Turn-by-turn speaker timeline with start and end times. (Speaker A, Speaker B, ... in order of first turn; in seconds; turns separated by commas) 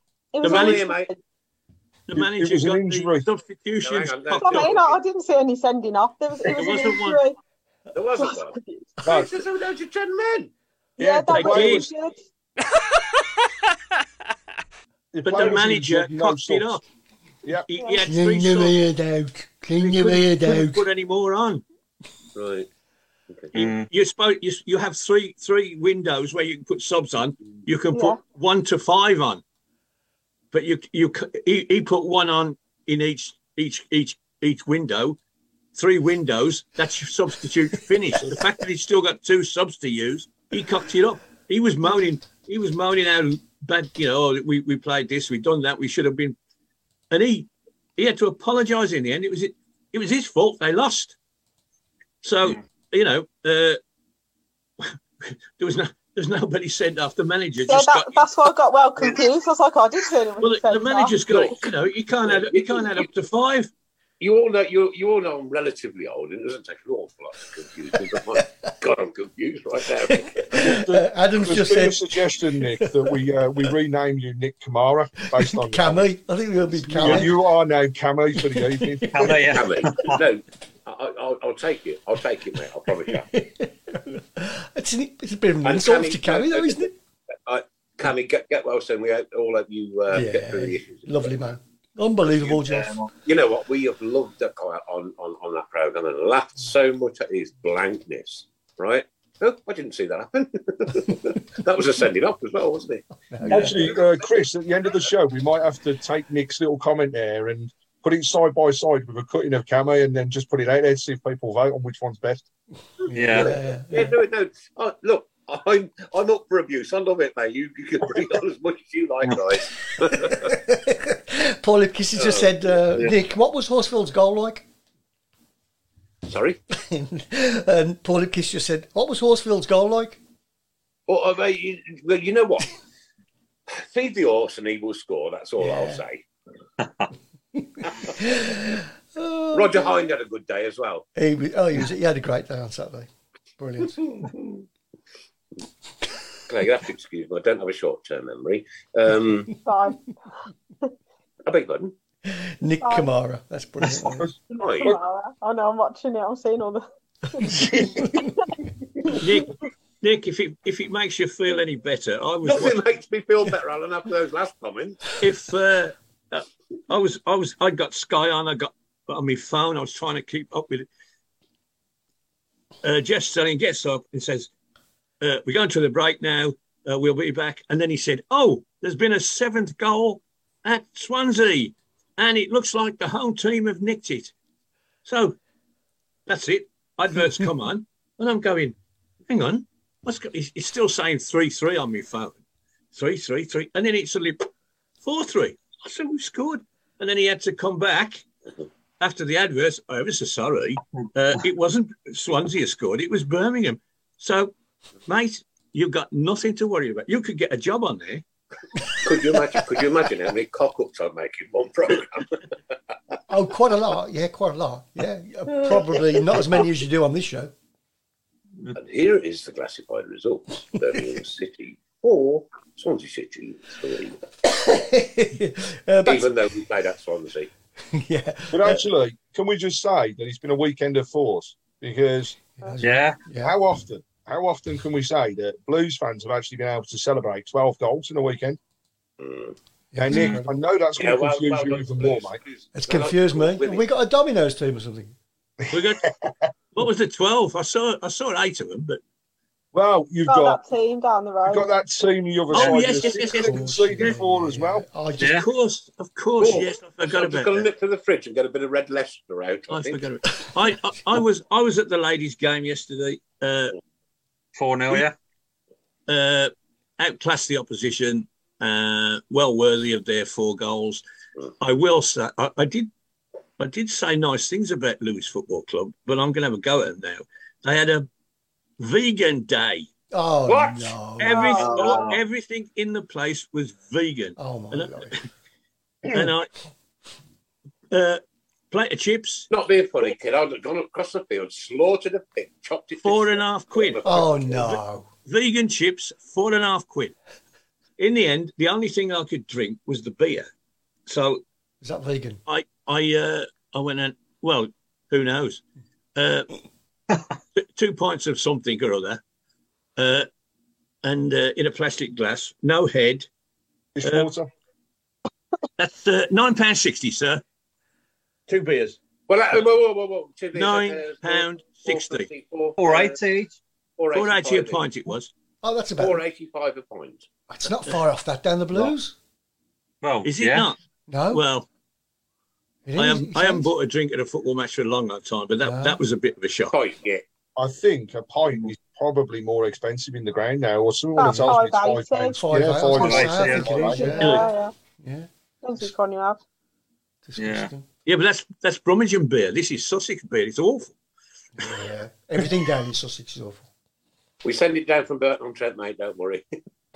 Speaker A: 0.3-1.2, Speaker B: 0.4-0.9, Speaker C: 0.4-1.1, Speaker B: 2.1-4.7, Speaker D: 2.1-3.2, Speaker C: 3.8-5.0, Speaker A: 4.4-7.4, Speaker B: 6.5-7.2, Speaker C: 7.9-10.5, Speaker A: 8.2-8.9, Speaker B: 11.0-11.9, Speaker A: 11.0-12.2, Speaker D: 11.1-11.9, Speaker D: 15.1-16.8, Speaker B: 15.2-16.8, Speaker B: 17.6-18.8, Speaker A: 17.8-18.1, Speaker E: 18.0-20.9, Speaker B: 19.8-21.6, Speaker C: 22.4-22.7, Speaker C: 23.3-23.7, Speaker F: 23.5-23.9, Speaker B: 23.6-29.4, Speaker A: 27.9-28.2, Speaker B: 30.5-35.2, Speaker B: 35.8-46.4, Speaker B: 47.1-51.2, Speaker B: 52.2-53.8, Speaker B: 54.8-58.3, Speaker A: 57.7-61.2, Speaker B: 60.4-63.7, Speaker C: 61.3-61.6, Speaker C: 62.2-63.1, Speaker C: 64.2-70.5, Speaker E: 68.3-68.7, Speaker E: 70.0-73.2, Speaker D: 70.6-76.1, Speaker E: 75.3-77.4, Speaker D: 76.9-79.4, Speaker E: 78.4-79.5, Speaker F: 79.1-80.2, Speaker C: 79.5-83.3, Speaker E: 83.1-86.9, Speaker C: 85.6-86.9, Speaker C: 87.5-91.4, Speaker E: 90.1-93.0, Speaker C: 92.3-92.7, Speaker C: 93.2-104.2, Speaker E: 103.3-103.9, Speaker D: 103.5-112.5, Speaker E: 113.1-114.2, Speaker F: 113.1-113.5, Speaker C: 113.3-120.6, Speaker E: 120.2-124.7, Speaker C: 122.2-122.8, Speaker C: 126.3-126.6, Speaker E: 126.8-130.2, Speaker C: 131.1-132.8, Speaker C: 133.7-136.2, Speaker E: 135.6-136.0, Speaker E: 137.6-139.9, Speaker C: 139.5-141.1, Speaker E: 141.2-144.3, Speaker C: 146.5-149.5, Speaker A: 149.7-150.1, Speaker C: 151.5-151.9, Speaker E: 152.3-154.3, Speaker A: 152.8-153.1, Speaker D: 154.2-155.0, Speaker C: 154.6-154.9, Speaker A: 154.6-157.6, Speaker D: 157.5-158.1, Speaker B: 159.1-162.8, Speaker C: 162.4-165.1, Speaker B: 165.2-170.9, Speaker B: 172.8-174.5, Speaker B: 175.2-184.3, Speaker B: 185.1-185.4, Speaker B: 186.3-188.8, Speaker B: 189.3-192.4, Speaker B: 192.9-194.5, Speaker B: 195.0-198.2, Speaker B: 199.0-204.5, Speaker B: 205.1-208.2, Speaker E: 208.9-209.7, Speaker C: 209.0-212.4, Speaker E: 213.3-217.5, Speaker C: 215.6-216.7, Speaker C: 218.8-224.2, Speaker E: 224.5-226.3, Speaker C: 226.1-227.5, Speaker E: 227.9-228.8, Speaker D: 228.5-232.4, Speaker E: 232.6-233.6, Speaker F: 232.8-233.2, Speaker D: 233.4-238.6, Speaker C: 239.2-239.6, Speaker E: 239.9-240.5, Speaker D: 240.0-242.4, Speaker F: 240.1-240.4, Speaker C: 241.0-243.9, Speaker E: 242.7-245.1, Speaker B: 245.7-246.1, Speaker B: 246.8-249.0, Speaker D: 249.7-250.6, Speaker A: 250.3-251.7, Speaker D: 251.4-254.9, Speaker B: 252.5-254.2, Speaker E: 252.6-255.4, Speaker F: 255.2-255.5, Speaker B: 255.2-257.7, Speaker C: 256.4-260.1, Speaker B: 259.7-263.8, Speaker E: 260.2-261.2, Speaker F: 264.6-265.1, Speaker B: 266.1-271.0, Speaker B: 271.6-272.9, Speaker B: 273.6-278.1, Speaker B: 278.8-279.9, Speaker E: 280.1-281.6, Speaker C: 280.5-281.0, Speaker B: 281.2-285.3, Speaker A: 281.3-281.9, Speaker C: 281.6-282.1, Speaker F: 281.7-282.2, Speaker E: 284.4-285.2, Speaker B: 286.1-286.5, Speaker B: 287.9-289.5, Speaker C: 289.5-294.8, Speaker B: 293.0-294.1, Speaker E: 294.0-295.1, Speaker B: 295.2-297.1, Speaker B: 298.0-300.5, Speaker B: 301.1-301.4, Speaker E: 301.8-302.4, Speaker B: 302.5-305.6, Speaker B: 306.1-306.5, Speaker B: 307.6-309.2, Speaker B: 310.0-310.3, Speaker B: 311.0-313.3, Speaker D: 314.0-314.5, Speaker B: 314.0-314.3, Speaker B: 315.8-317.4, Speaker B: 318.5-319.0, Speaker C: 319.3-323.2, Speaker B: 320.5-322.3, Speaker F: 322.8-323.5, Speaker C: 324.0-324.8, Speaker B: 324.1-325.3, Speaker E: 325.6-326.2, Speaker C: 326.0-327.3, Speaker E: 327.5-329.2, Speaker F: 330.0-330.7, Speaker B: 330.2-330.8, Speaker E: 331.1-331.5, Speaker B: 331.3-331.7, Speaker E: 332.9-333.7, Speaker B: 333.0-336.8, Speaker E: 335.6-336.0, Speaker C: 336.7-337.2, Speaker D: 337.6-344.1, Speaker A: 341.2-342.4, Speaker E: 341.2-341.5, Speaker E: 342.3-345.3, Speaker F: 343.0-344.1, Speaker A: 343.6-344.8, Speaker B: 344.1-344.5, Speaker A: 345.6-346.4, Speaker E: 347.3-347.9, Speaker F: 347.4-347.7, Speaker B: 348.1-350.9, Speaker E: 351.6-353.7, Speaker C: 354.4-356.6